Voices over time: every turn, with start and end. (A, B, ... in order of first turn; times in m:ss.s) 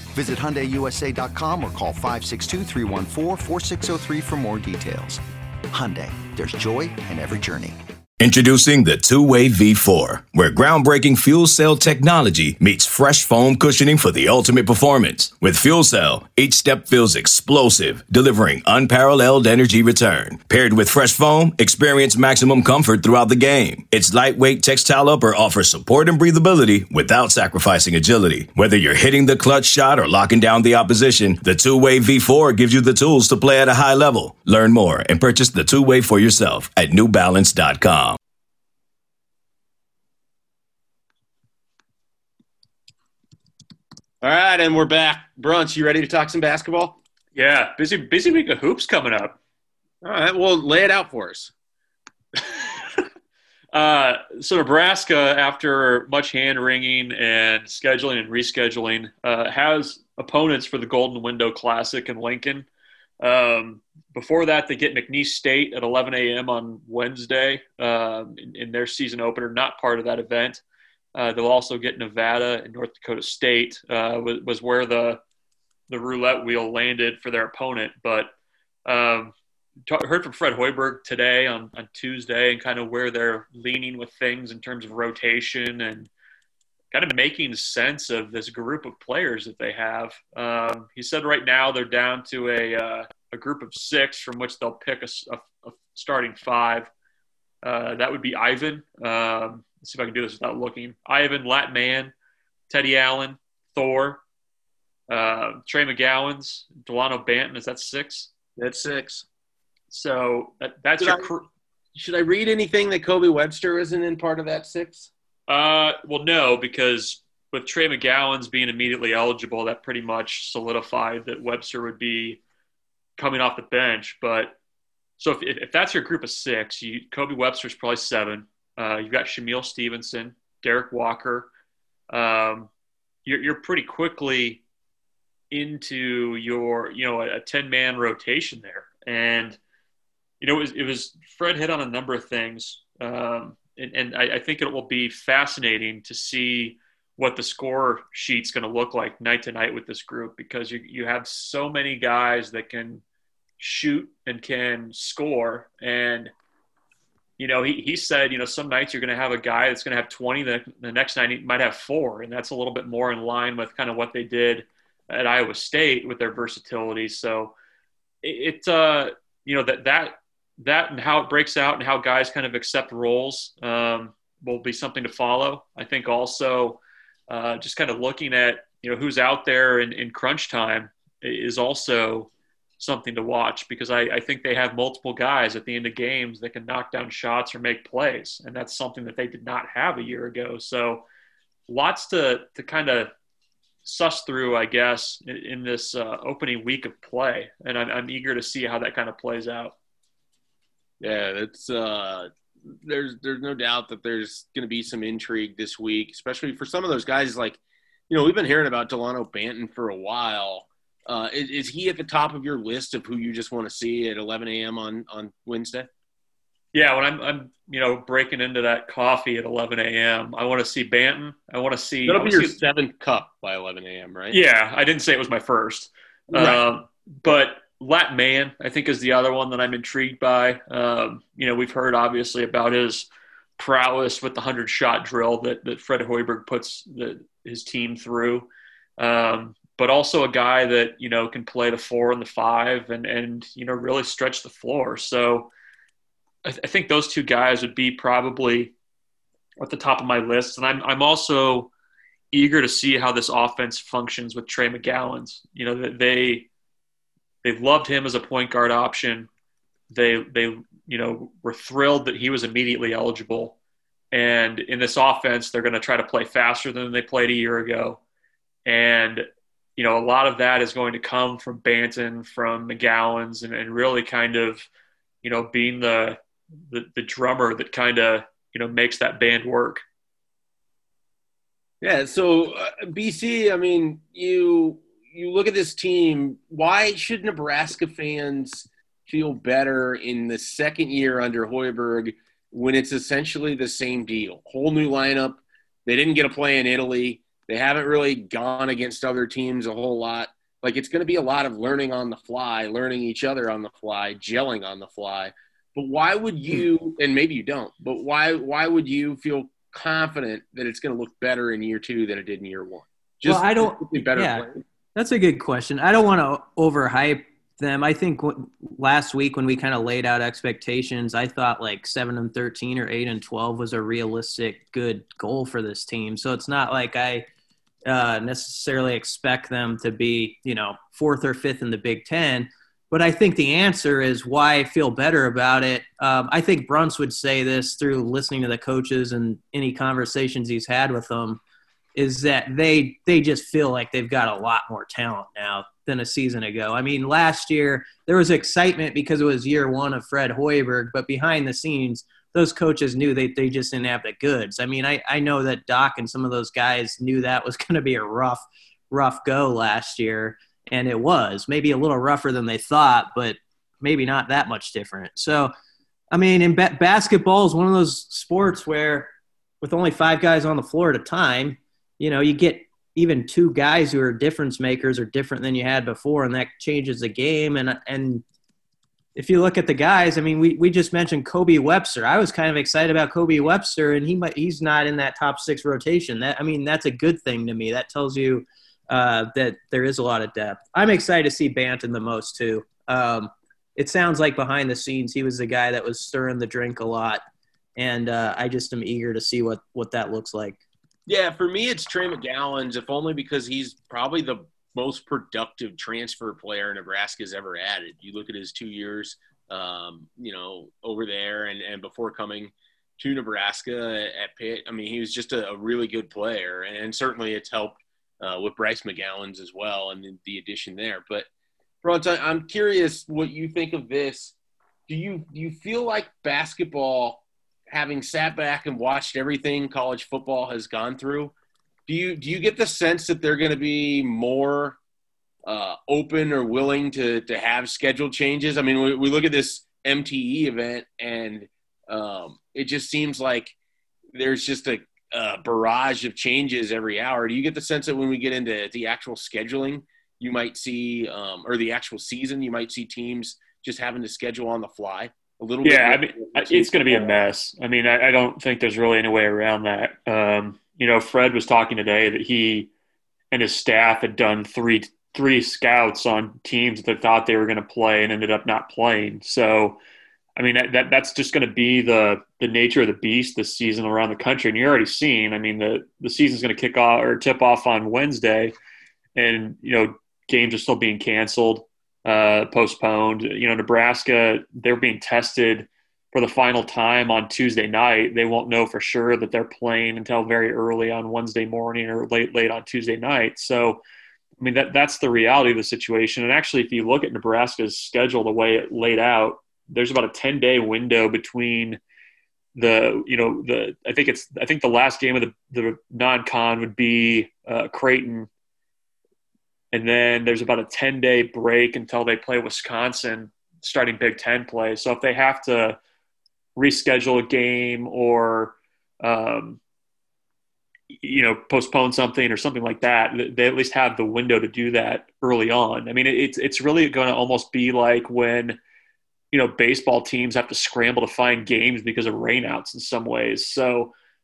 0:00.1-0:07.8 A
0:08.2-0:38.2 B
0:44.2-0:47.0 C
0:47.4-0:49.4 D
0:50.0-0:51.5 C
0:53.7-1:02.7 D
1:03.2-1:10.6 D
1:11.2-1:15.2 D
1:15.9-1:18.3 D
1:18.8-1:19.3 D
1:19.9-1:26.1 D
1:26.9-1:36.9 D
1:37.6-1:42.1 D
1:42.7-1:44.2 D
1:45.1-1:48.3 D
1:48.6-1:49.3 C
1:49.9-1:51.5 D
1:51.0-1:51.3 C
1:52.0-1:55.1 C
1:55.5-2:02.4 D
2:03.2-2:04.6 D
2:05.2-2:11.5 D
2:12.1-2:12.7 D
2:13.3-2:14.6 D
2:15.5-2:19.6 D
2:20.4-2:33.0 D
2:33.6-2:36.3 D
2:37.4-2:47.5 D
2:48.2-3:11.0 D
3:11.7-3:13.1 D
3:13.8-3:19.8 D
3:21.0-3:35.9 C
3:36.7-3:42.6 D
3:42.1-3:44.4 C
3:44.3-4:05.5 D
3:46.3-3:46.6 C
4:06.4-4:08.7 D
4:09.6-4:11.7 D
4:12.3-4:16.5 D
4:17.4-4:19.3 D
4:19.9-4:23.6 D
4:24.1-4:28.0 D
4:28.6-4:29.3 D
4:29.8-4:34.7 D
4:35.2-4:39.8 D
4:41.8-5:14.6 C
5:13.2-5:27.3 E
5:27.9-5:41.4 E
5:42.0-6:05.5 E
6:06.1-6:18.2 E
6:19.2-6:37.2 E
6:37.8-6:40.6 E
6:41.1-7:01.3 C
7:01.8-7:04.3 C
7:04.9-7:11.3 C
7:11.9-7:14.8 C
7:15.5-7:23.6 C
7:24.1-7:37.1 C
7:35.6-7:42.7 D
7:43.3-7:49.8 D
7:50.4-7:58.5 D
7:59.2-8:13.8 D
8:14.4-8:21.8 D
8:22.6-8:28.3 D
8:29.7-8:35.8 D
8:36.6-8:39.6 D
8:40.9-8:48.6 D
8:49.3-8:53.9 D